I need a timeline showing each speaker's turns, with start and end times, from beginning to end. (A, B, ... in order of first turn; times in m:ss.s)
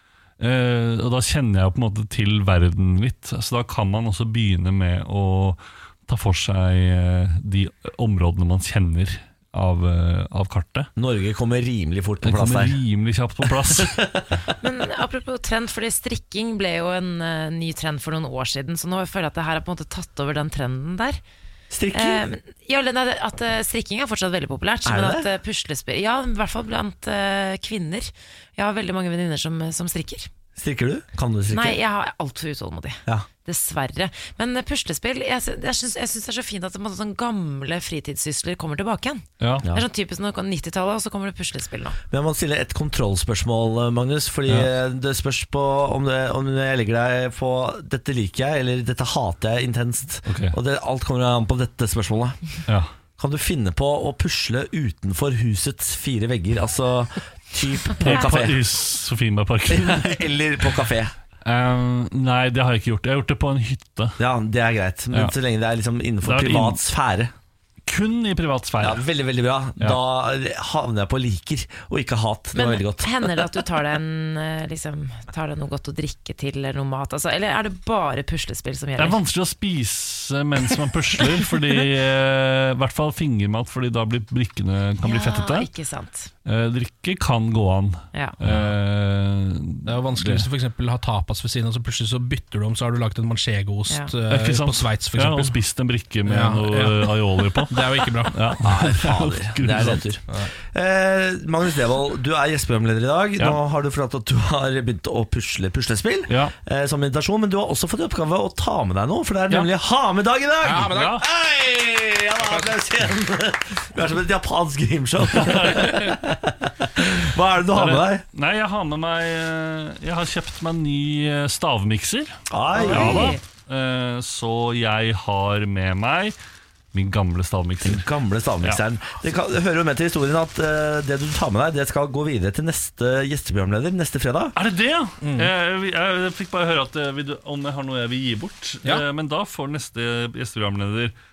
0:00.4-0:10.9 A
0:11.0-0:12.8 B
0:12.2-0:14.0 A
0:13.4-0:14.2 B
0:14.6-0:21.2 C
0:21.7-0:22.2 B
0:21.9-0:30.3 C
0:24.8-0:25.3 B
0:30.6-0:31.8 B
0:31.5-0:42.0 C
0:39.4-0:39.7 A
0:42.1-0:52.4 B
0:50.3-0:50.6 A
0:53.2-0:58.6 B
0:58.0-1:00.3 A
0:59.7-1:01.2 B
1:01.4-1:04.2 A
1:04.2-1:07.3 B
1:06.2-1:06.8 A
1:07.9-1:09.0 A
1:08.8-1:13.4 B
1:12.6-1:19.2 C
1:19.0-1:25.7 A
1:25.0-1:26.3 C
1:26.4-1:30.5 A
1:29.9-1:35.6 D
1:34.3-1:40.2 A
1:36.3-1:38.6 D
1:38.6-1:58.2 B
1:46.3-1:46.5 A
1:50.6-1:51.2 D
1:50.8-1:51.2 A
1:55.4-1:56.2 A
1:57.7-2:02.4 A
2:02.5-2:03.4 B
2:02.8-2:03.4 C
2:02.9-2:06.4 A
2:06.9-2:08.0 A
2:07.8-2:14.6 B
2:14.6-2:21.2 A
2:15.2-2:15.5 D